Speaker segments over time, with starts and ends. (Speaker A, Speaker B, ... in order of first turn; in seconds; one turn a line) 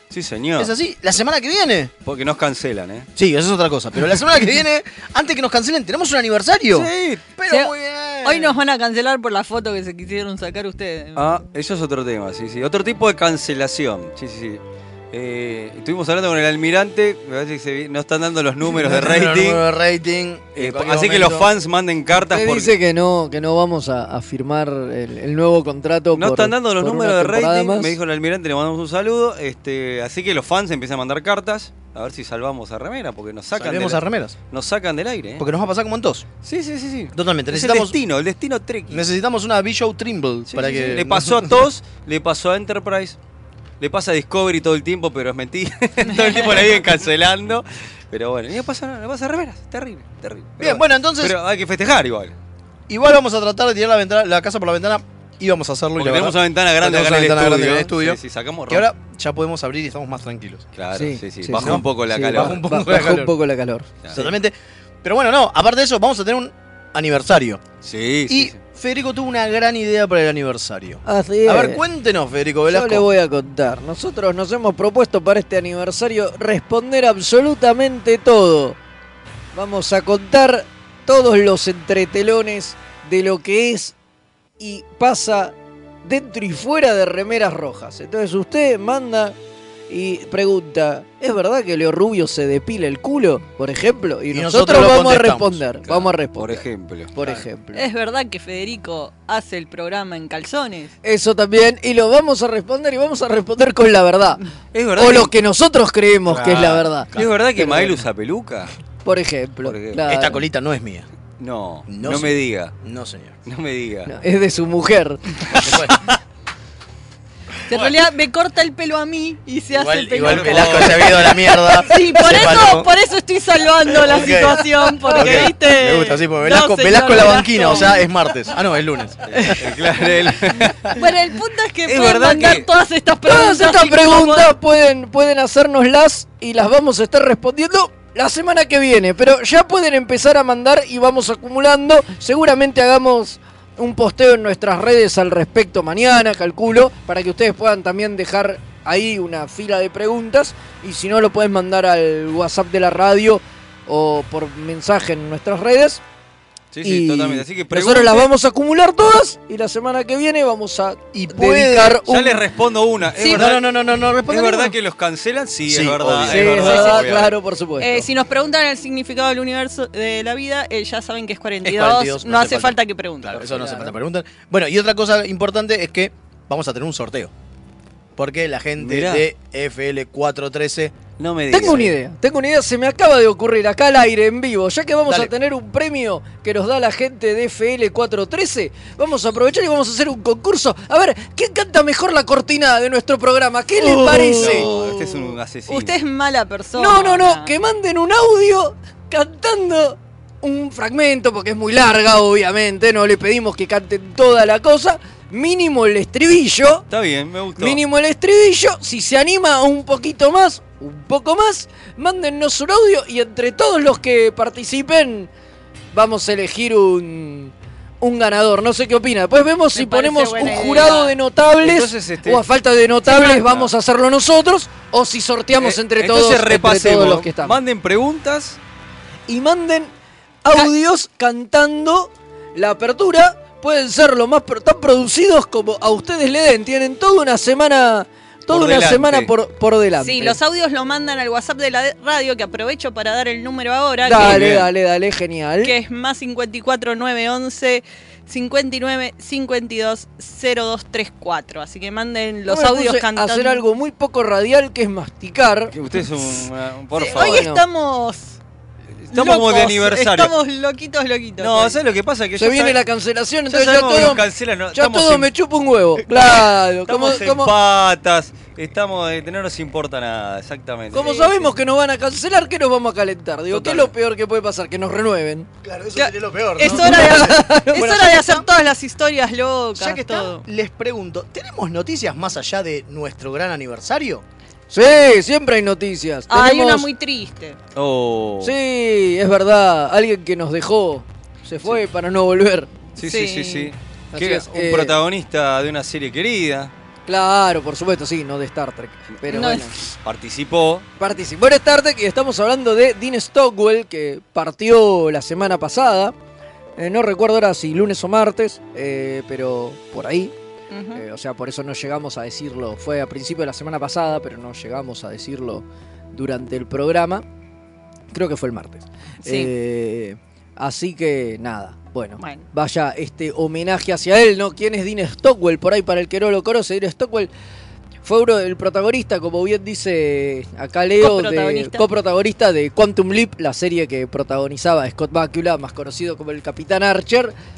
Speaker A: 0.1-0.7
Speaker B: 0.6-1.9
Speaker A: 2.0-3.1
Speaker B: 3.1-8.6
Speaker A: 6.7-7.3
Speaker C: 8.2-11.2
Speaker A: 11.2-14.6
Speaker A: 15.1-19.6
Speaker B: 18.6-21.5
Speaker A: 20.6-22.7
Speaker D: 22.2-27.9
Speaker A: 26.1-35.4
Speaker B: 33.5-34.4
Speaker B: 35.4-36.2
Speaker A: 36.4-39.0
Speaker B: 37.1-37.9
Speaker B: 38.9-41.5
Speaker A: 40.5-43.2
Speaker A: 43.8-52.3
Speaker C: 46.1-46.3
Speaker B: 50.6-51.4
Speaker B: 52.9-58.2
Speaker A: 56.0-58.9
Speaker B: 58.7-60.6
Speaker A: 60.7-62.6
Speaker D: 60.9-63.9
Speaker B: 61.5-63.3
Speaker B: 64.1-67.6
Speaker A: 67.8-68.6
Speaker B: 68.3-73.0
Speaker D: 71.0-71.8
Speaker D: 72.7-78.8
Speaker D: 79.5-83.9
Speaker D: 84.6-89.4
Speaker D: 89.9-96.6
Speaker B: 94.3-95.6
Speaker A: 95.9-97.4
Speaker D: 97.2-97.8
Speaker C: 97.7-100.9
Speaker D: 101.0-104.4
Speaker A: 104.7-105.3
Speaker D: 105.0-108.0
Speaker B: 106.3-107.2
Speaker A: 107.1-108.7
Speaker D: 109.0-110.4
Speaker A: 109.6-110.0
Speaker B: 110.1-111.1
Speaker A: 111.4-112.7
Speaker B: 111.9-113.4
Speaker A: 113.5-114.1
Speaker D: 114.1-115.2
Speaker B: 115.6-115.9
Speaker C: 117.7-121.1
Speaker B: 119.7-122.9
Speaker A: 120.2-121.4
Speaker C: 121.7-128.0
Speaker B: 123.9-124.6
Speaker B: 125.1-129.6
Speaker A: 125.2-125.5
Speaker A: 129.3-131.0
Speaker C: 130.9-134.5
Speaker A: 131.8-132.7
Speaker D: 133.2-156.0
Speaker A: 156.7-158.3
Speaker D: 156.8-162.4
Speaker B: 161.1-162.0
Speaker A: 162.1-163.7
Speaker B: 163.2-164.7
Speaker A: 164.3-167.3
Speaker B: 165.7-166.8
Speaker D: 166.3-168.1
Speaker C: 166.7-167.0
Speaker C: 167.8-173.6
Speaker B: 171.6-177.3
Speaker D: 173.4-173.9
Speaker B: 178.2-180.9
Speaker A: 178.8-179.2
Speaker A: 181.2-181.9
Speaker D: 181.5-195.3
Speaker B: 194.1-194.8
Speaker A: 194.3-196.0
Speaker C: 195.7-197.5
Speaker D: 196.8-206.8
Speaker A: 206.9-207.8
Speaker D: 207.6-215.3
Speaker D: 215.9-227.6
Speaker C: 219.7-221.2
Speaker A: 221.6-222.4
Speaker C: 223.1-223.4
Speaker A: 223.4-223.7
Speaker A: 225.6-228.6
Speaker D: 229.3-229.9
Speaker D: 230.4-240.4
Speaker A: 238.5-239.3
Speaker C: 240.0-244.5
Speaker D: 244.0-245.7
Speaker A: 244.2-244.7
Speaker C: 245.6-253.6
Speaker D: 252.5-255.7
Speaker A: 255.7-257.5
Speaker C: 257.0-258.4
Speaker D: 257.0-257.6
Speaker A: 259.0-260.3
Speaker C: 259.1-261.8
Speaker A: 261.4-262.8
Speaker D: 262.4-267.5
Speaker A: 263.5-265.3
Speaker A: 266.0-271.4
Speaker D: 270.9-275.5
Speaker A: 273.6-273.8
Speaker B: 275.6-278.5
Speaker C: 275.9-280.4
Speaker D: 276.6-277.8
Speaker B: 279.7-284.2
Speaker D: 284.7-286.9
Speaker C: 286.3-287.6
Speaker A: 287.7-288.5
Speaker D: 288.4-292.7
Speaker A: 293.0-296.7
Speaker C: 293.0-293.7
Speaker D: 294.1-295.0
Speaker D: 297.1-299.7
Speaker C: 299.3-299.7
Speaker A: 300.0-300.9
Speaker D: 301.0-306.1
Speaker D: 306.8-310.3
Speaker C: 310.7-311.0
Speaker D: 310.9-317.2
Speaker D: 318.1-327.3
Speaker C: 319.2-319.5
Speaker C: 322.2-322.4
Speaker D: 328.0-337.3
Speaker C: 331.0-331.8